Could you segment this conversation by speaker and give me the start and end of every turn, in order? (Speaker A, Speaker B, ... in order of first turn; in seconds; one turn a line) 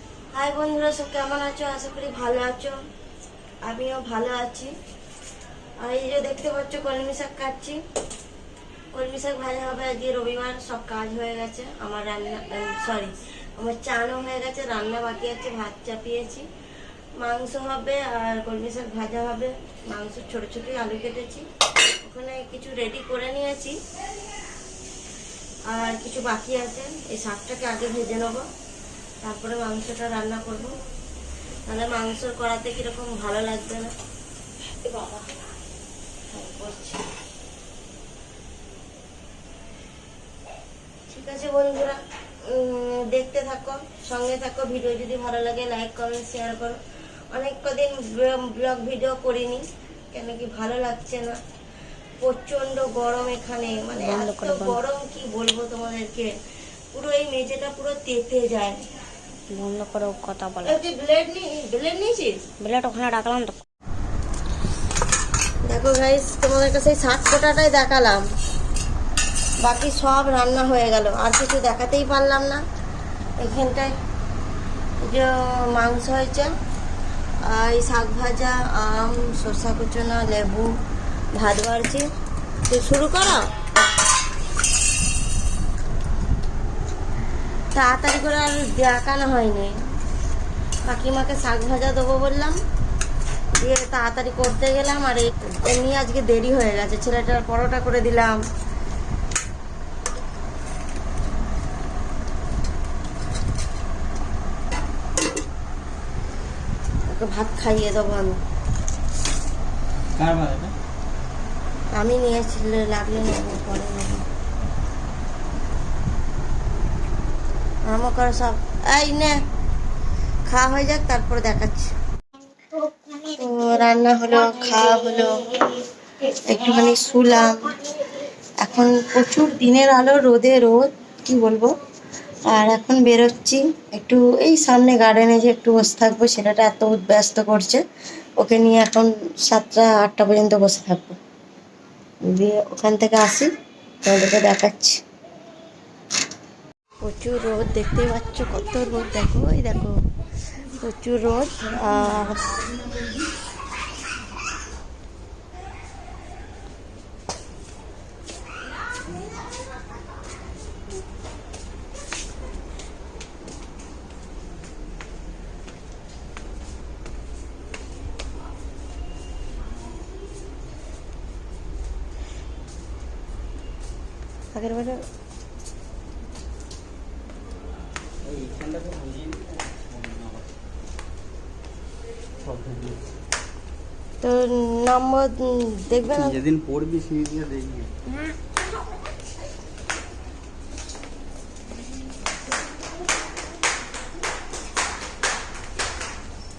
Speaker A: 0.3-2.8
Speaker A: 3.7-4.7
Speaker A: 5.8-7.8
Speaker A: 8.9-16.5
Speaker A: 17.2-21.4
Speaker A: 22.0-23.8
Speaker A: 25.7-28.4
Speaker A: 29.2-30.7
Speaker A: 31.7-33.9
Speaker A: 34.9-35.1
Speaker A: 36.3-37.0
Speaker A: 41.1-46.8
Speaker A: 47.3-51.4
Speaker A: 52.2-56.3
Speaker B: 54.0-54.8
Speaker A: 56.9-58.8
Speaker B: 59.5-60.8
Speaker A: 60.6-62.4
Speaker B: 62.6-63.6
Speaker A: 65.7-68.2
Speaker A: 69.6-72.6
Speaker A: 73.4-73.9
Speaker A: 75.0-76.5
Speaker A: 77.5-80.7
Speaker A: 81.4-82.1
Speaker A: 82.7-83.5
Speaker A: 87.8-89.7
Speaker A: 90.9-92.6
Speaker A: 93.6-98.4
Speaker A: 107.1-108.4
Speaker C: 110.2-110.8
Speaker A: 112.0-114.2
Speaker A: 117.9-119.3
Speaker A: 120.5-121.9
Speaker A: 123.2-125.6
Speaker A: 126.2-127.7
Speaker A: 128.6-131.7
Speaker A: 132.4-137.8
Speaker A: 138.4-141.2
Speaker A: 142.3-143.5
Speaker A: 144.1-145.0
Speaker A: 147.0-149.9
Speaker A: 150.8-152.5
Speaker A: 174.5-175.0
Speaker C: 178.2-180.4
Speaker C: 182.4-183.0
Speaker A: 184.2-186.4
Speaker C: 186.1-187.9